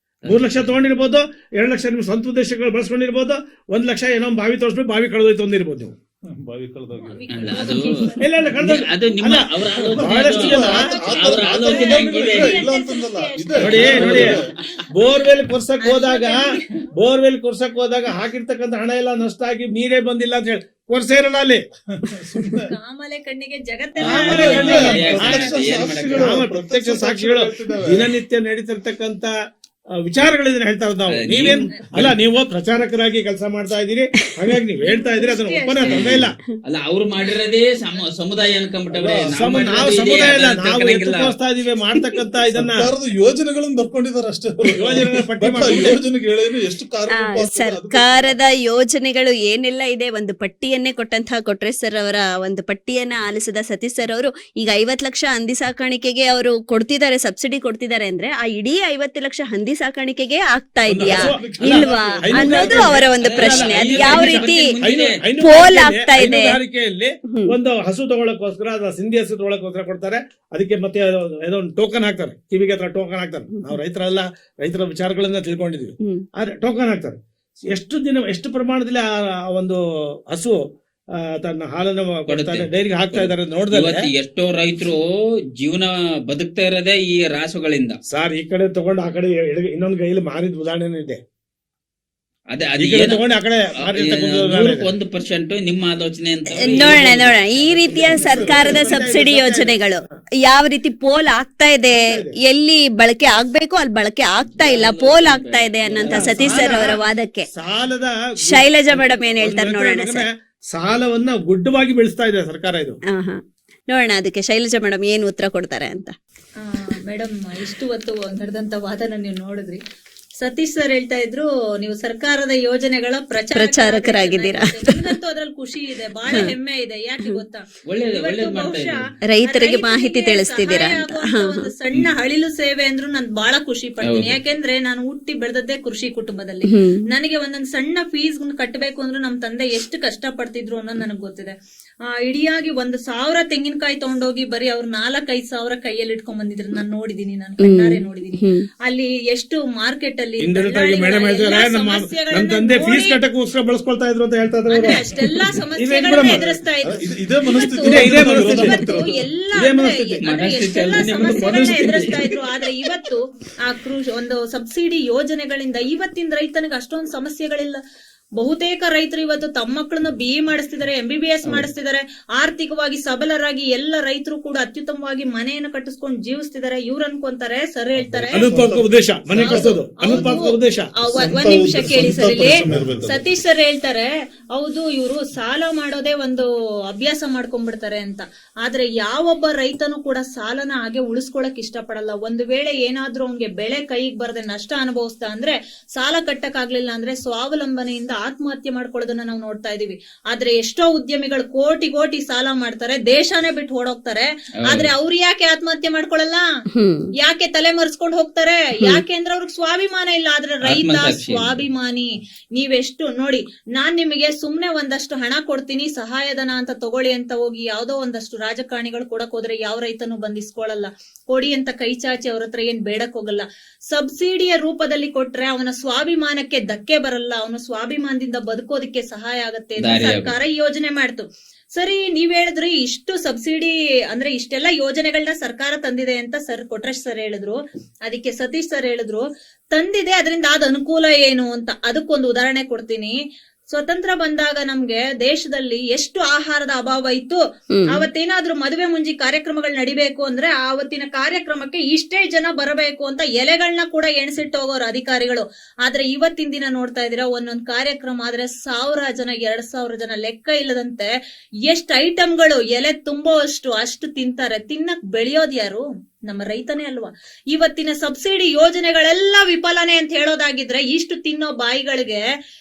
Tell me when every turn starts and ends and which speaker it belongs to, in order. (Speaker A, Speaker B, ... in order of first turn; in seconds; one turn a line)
Speaker A: 0.2-0.7
Speaker B: 0.2-6.0
Speaker C: 6.3-7.8
Speaker D: 7.0-8.3
Speaker A: 7.3-7.9
Speaker B: 8.2-10.8
Speaker A: 8.6-12.6
Speaker C: 9.8-14.5
Speaker D: 10.3-14.5
Speaker B: 13.6-16.4
Speaker A: 14.0-14.3
Speaker D: 15.8-16.7
Speaker B: 16.9-21.6
Speaker C: 22.0-22.7
Speaker D: 22.7-25.4
Speaker C: 24.0-28.1
Speaker B: 24.1-29.3
Speaker A: 24.3-26.4
Speaker B: 30.0-36.4
Speaker A: 31.1-32.2
Speaker D: 31.5-31.8
Speaker D: 34.8-36.2
Speaker A: 35.8-41.3
Speaker C: 38.9-40.3
Speaker B: 39.3-42.9
Speaker C: 42.6-48.4
Speaker B: 44.7-46.0
Speaker E: 47.2-64.7
Speaker C: 61.0-63.0
Speaker B: 61.1-77.2
Speaker A: 63.2-65.2
Speaker E: 65.4-66.6
Speaker E: 67.3-67.5
Speaker E: 76.0-76.3
Speaker B: 77.7-84.1
Speaker A: 82.3-88.0
Speaker B: 88.1-91.2
Speaker A: 92.5-93.2
Speaker B: 92.8-94.9
Speaker A: 93.8-97.4
Speaker E: 96.5-107.5
Speaker B: 97.6-99.8
Speaker B: 101.9-102.4
Speaker A: 104.5-106.7
Speaker B: 106.0-107.0
Speaker B: 107.5-113.0
Speaker E: 108.5-110.3
Speaker E: 113.1-116.2
Speaker D: 116.6-119.8
Speaker D: 120.4-141.5
Speaker E: 123.5-125.0
Speaker E: 126.3-126.5
Speaker A: 127.9-129.0
Speaker E: 129.2-131.7
Speaker A: 134.1-134.3
Speaker E: 136.7-137.0
Speaker D: 142.2-153.2
Speaker E: 147.6-148.7
Speaker B: 150.4-155.1
Speaker D: 154.7-167.8
Speaker B: 155.8-156.4
Speaker C: 156.2-159.1
Speaker B: 157.9-158.8
Speaker B: 159.5-160.2
Speaker A: 160.2-162.2
Speaker C: 161.2-162.2
Speaker D: 168.4-178.5
Speaker C: 178.0-178.8
Speaker B: 178.3-180.9
Speaker C: 179.4-180.3
Speaker D: 179.4-206.4
Speaker C: 181.1-183.2
Speaker E: 206.7-207.1
Speaker D: 207.2-243.2
Speaker A: 210.7-211.6
Speaker A: 229.8-230.3
Speaker D: 243.7-261.1
Speaker E: 247.7-248.0
Speaker D: 261.6-272.2